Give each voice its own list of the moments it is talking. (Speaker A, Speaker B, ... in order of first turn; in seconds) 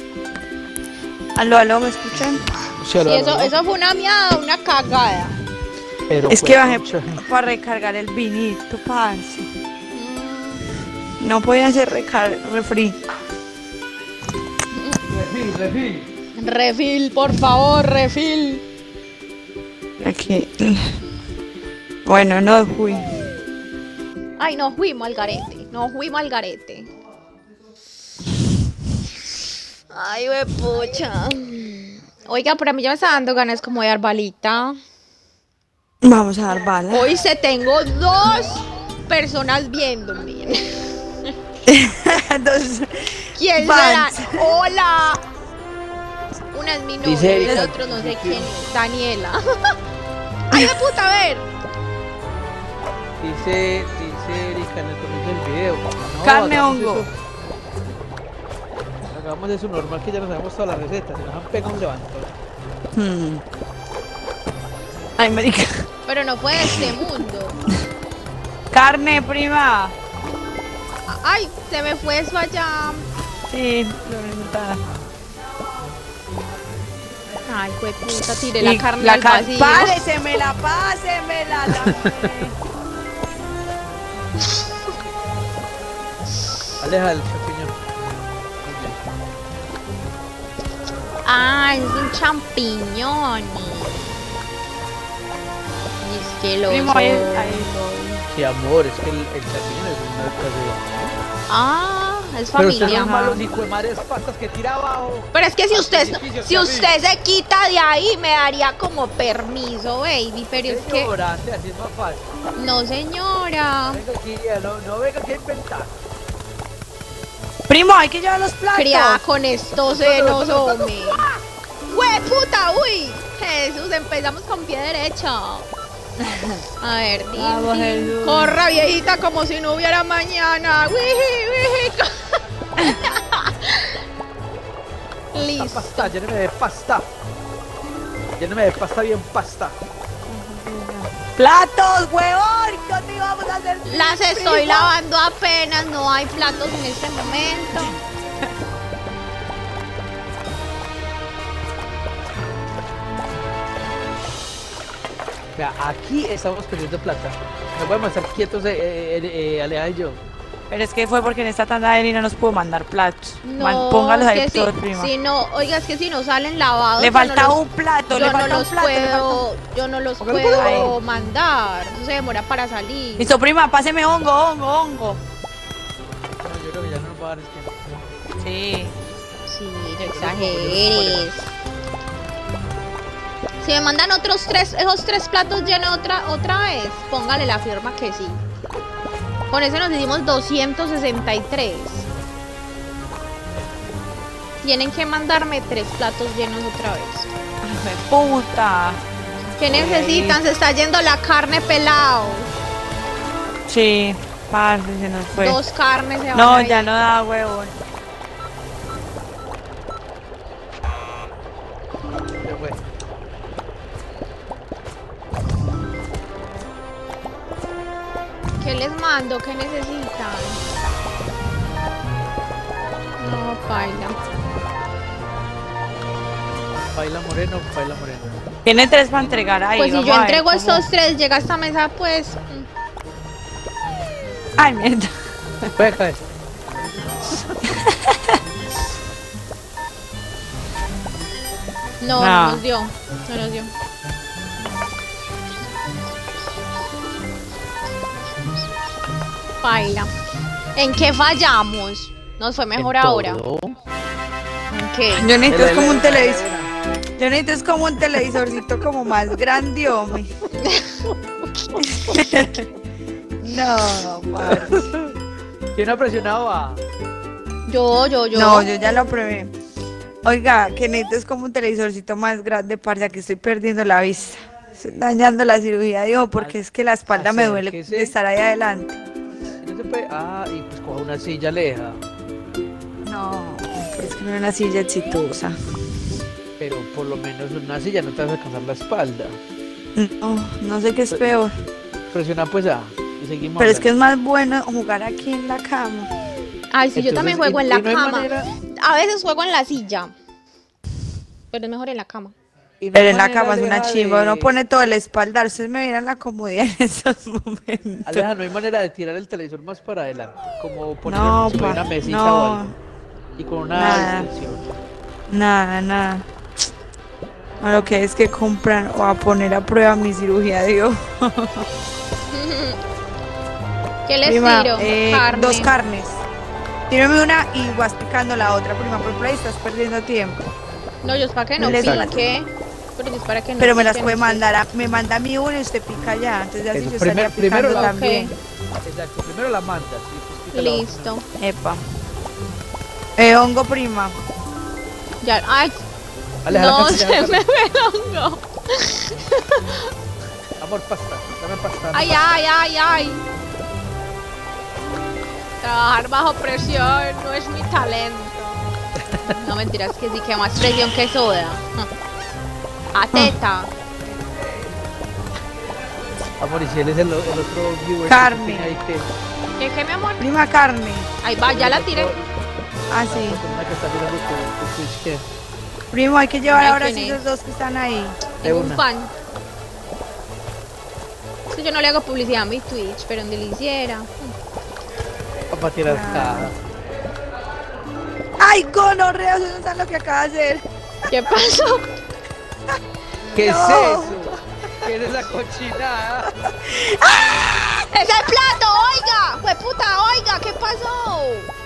Speaker A: 1.4-2.4, 6.3-9.5, 11.2-13.0, 20.0-21.0, 22.1-23.1, 36.0-37.1, 41.7-44.5, 47.4-47.7, 56.2-57.1, 62.9-63.4, 65.2-65.8, 66.7-66.9, 68.7-69.9, 73.5-74.8, 78.6-82.5, 96.7-98.3, 102.8-103.4, 117.7-119.2, 126.2-126.5, 127.4-128.7, 140.3-144.9, 160.7-165.1, 167.0-169.4, 170.6-171.0, 173.2-175.2, 178.4-178.9, 197.6-199.0, 199.6-200.4, 203.7-205.6, 206.3-207.8, 228.7-230.8, 234.6-235.1, 237.6-238.4, 242.2-242.6, 255.1-256.4, 257.2-260.3, 261.8-262.7, 263.4-264.9, 268.3-269.5, 270.2-279.0, 283.1-285.6, 290.0-291.5, 293.6-296.1, 302.9-308.2, 311.1-312.7, 313.7-314.3, 315.3-316.3, 317.6-321.7, 324.2-326.2, 326.9-330.5, 331.6-332.2, 333.6-338.3, 341.4-341.8, 343.2-344.2, 368.1-368.7, 370.2-371.1, 372.9-373.4, 375.9-378.3, 385.9-386.5, 388.4-390.6, 393.4-394.9, 396.4-397.9
Speaker B: 2.8-3.5, 6.1-7.2, 15.1-16.1, 47.0-48.5, 53.2-57.1, 59.1-62.3, 81.7-82.5, 86.8-87.8, 88.6-89.0, 98.3-101.2, 102.6-106.9, 110.6-112.3, 113.9-116.0, 119.8-121.3, 135.6-137.1, 138.4-139.8, 155.6-160.2, 170.2-170.9, 176.4-177.8, 180.1-181.3, 212.4-212.8, 226.9-228.5, 235.8-236.2, 252.8-253.8, 255.5-256.7, 264.4-265.1, 265.8-266.8, 277.1-278.1, 279.6-282.0, 286.6-289.4, 292.1-293.9, 296.9-298.5, 302.8-304.5, 308.1-312.8, 313.4-314.8, 331.6-332.1, 336.7-337.9, 338.9-341.2, 346.4-347.5, 350.6-352.2, 359.0-359.4, 366.4-369.1, 371.4-372.3, 373.1-375.2, 378.4-378.8, 385.5-386.6, 393.3-396.3
Speaker C: 3.0-5.3, 9.9-10.6, 14.8-15.0, 16.4-18.6, 24.4-26.9, 29.9-34.8, 36.9-41.3, 43.4-45.2, 46.5-49.8, 50.5-51.5, 66.1-67.6, 71.1-73.1, 77.5-80.0, 91.2-94.4, 96.0-97.7, 101.5-103.1, 105.3-111.1, 112.6-114.0, 118.7-121.2, 121.9-125.7, 126.8-134.0, 135.3-136.1, 143.9-148.0, 163.4-167.6, 168.1-173.3, 179.5-181.5, 183.6-188.4, 189.5-192.1, 194.6-197.3, 199.6-202.5, 205.4-206.9, 218.6-220.6, 223.2-224.2, 229.8-232.7, 242.0-243.7, 249.6-250.1, 250.8-253.4, 254.7-255.3, 260.6-261.0, 267.7-268.7, 296.7-300.1, 301.5-302.3, 322.3-322.8, 324.1-325.7, 331.0-334.4, 337.7-338.3, 340.5-341.2, 345.2-345.8, 346.5-349.9, 351.9-353.2, 355.6-358.6, 359.3-361.9, 362.9-363.7, 369.6-370.3, 371.2-372.1, 376.6-377.2, 378.4-379.1, 381.5-384.4, 391.1-391.9, 397.9-401.5